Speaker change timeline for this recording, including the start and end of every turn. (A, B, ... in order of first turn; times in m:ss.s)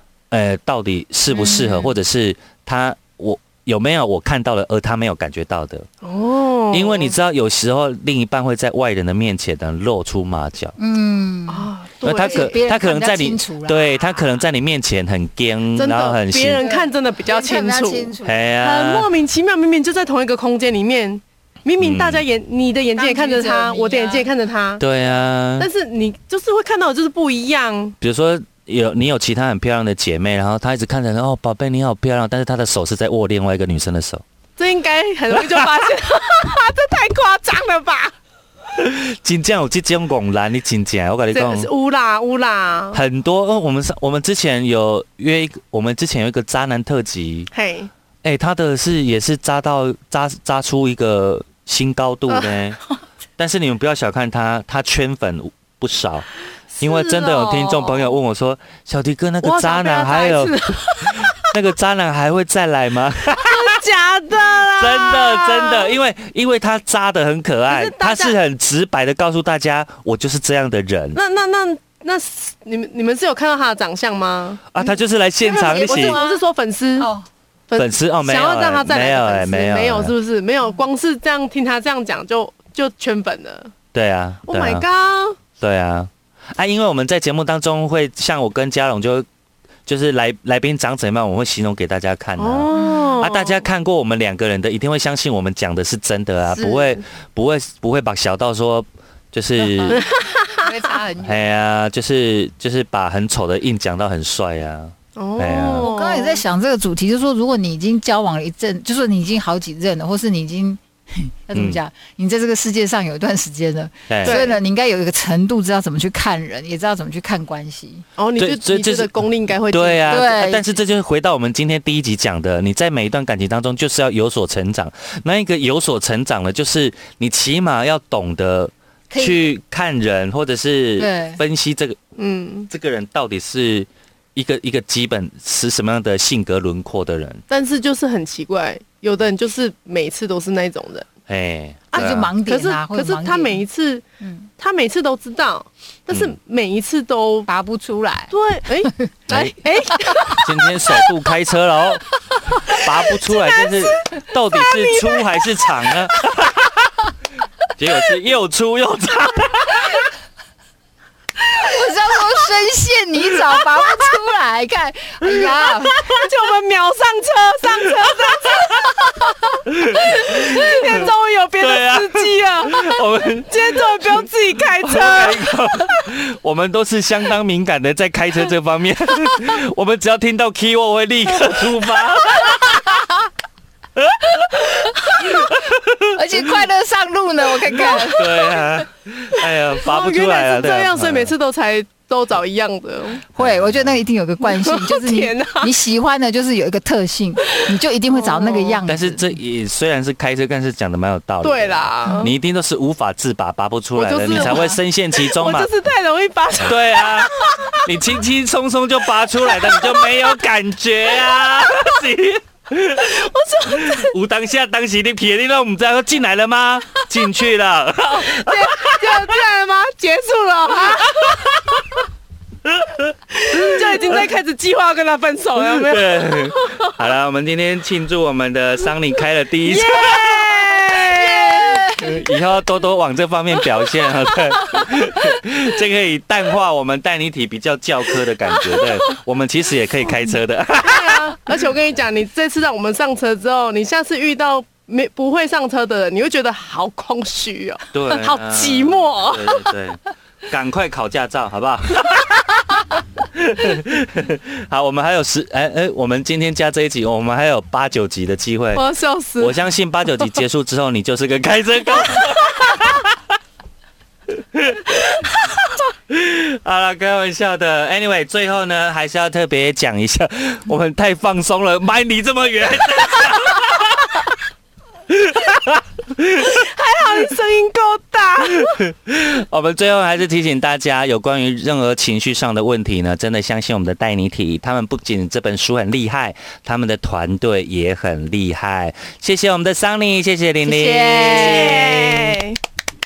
0:00.3-0:05.9 A
0:01.4-0:02.0 B
0:06.0-0:07.2 C
0:06.7-0:10.8 A
0:10.8-0:11.7 B
0:11.5-0:12.5 C
0:12.0-0:16.6 A
0:12.2-0:14.3 B
0:15.8-0:24.8 C
0:16.6-0:18.5 B
0:18.2-0:19.1 A
0:21.8-0:22.2 A
0:23.0-0:24.3 B
0:24.8-0:25.7 A
0:25.6-0:28.0 C
0:28.0-0:34.2 A
0:34.6-0:38.1 C
0:35.4-0:35.8 A
0:38.8-0:41.7 A
0:41.3-0:43.0 C
0:42.9-0:47.5 A
0:47.5-0:47.9 C
0:48.2-0:52.8 A
0:52.3-0:52.6 C
0:53.4-0:56.3 A
0:56.8-0:58.2 C
0:56.8-1:03.8 A
0:59.4-1:01.6 C
1:03.4-1:06.0 C
1:04.6-1:11.2 A
1:07.7-1:08.4 C
1:11.2-1:14.8 C
1:14.7-1:16.2 A
1:15.5-1:16.4 B
1:15.5-1:17.1 C
1:17.0-1:17.3 B
1:17.7-1:23.7 C
1:17.8-1:20.1 A
1:23.9-1:24.9 A
1:24.5-1:25.4 C
1:25.6-1:29.3 A
1:29.9-1:40.0 A
1:32.4-1:33.6 C
1:32.7-1:33.2 B
1:36.5-1:37.0 C
1:39.6-1:41.5 B
1:39.9-1:40.7 C
1:41.2-1:45.9 A
1:45.2-1:46.4 C
1:45.8-1:58.1 B
1:51.6-1:51.8 A
1:54.1-1:54.4 A
1:54.2-1:54.6 C
1:58.2-2:00.3 C
1:58.4-2:12.0 A
2:00.1-2:00.8 B
2:09.1-2:09.4 B
2:11.0-2:11.4 B
2:12.2-2:12.7 C
2:12.7-2:17.4 A
2:17.5-2:21.1 C
2:21.3-2:22.3 A
2:21.9-2:24.0 C
2:21.9-2:23.6 B
2:24.2-2:24.5 B
2:24.6-2:27.5 C
2:26.1-2:26.4 A
2:27.5-2:28.3 B
2:28.3-2:30.5 C
2:28.8-2:29.1 B
2:29.3-2:29.6 A
2:29.9-2:30.4 B
2:30.3-2:32.0 A
2:32.7-2:36.9 A
2:32.9-2:35.5 C
2:37.8-2:40.0 A
2:41.6-2:46.1 B
2:43.6-2:43.9 A
2:45.6-2:49.1 C
2:49.2-2:49.6 B
2:49.7-2:54.3 A
2:50.1-2:56.0 C
2:54.8-3:03.0 A
3:02.4-3:03.1 B
3:04.0-3:06.6 A
3:04.9-3:05.5 B
3:06.1-3:08.7 B
3:07.8-3:11.3 A
3:09.8-3:13.2 C
3:13.3-3:19.3 B
3:13.4-3:14.0 A
3:14.4-3:15.7 C
3:18.1-3:18.8 C
3:18.9-3:25.7 A
3:21.4-3:22.3 C
3:24.0-3:27.9 C
3:24.3-3:24.8 B
3:26.6-3:39.4 A
3:29.5-3:30.2 C
3:33.0-3:34.1 C
3:38.2-3:41.5 C
3:41.0-3:41.8 A
3:42.6-3:44.3 A
3:43.3-3:46.9 C
3:45.6-3:50.4 A
3:49.6-3:52.0 C
3:51.1-3:52.1 B
3:52.0-4:01.4 A
4:00.8-4:09.7 C
4:07.9-4:12.8 A
4:13.3-4:18.8 A
4:18.7-4:19.6 C
4:19.4-4:23.2 A
4:24.4-4:25.0 A
4:26.1-4:34.3 A
4:35.1-4:36.6 A
4:36.4-4:38.8 C
4:38.6-4:51.9 A
4:50.6-4:52.3 B
4:51.2-4:52.6 C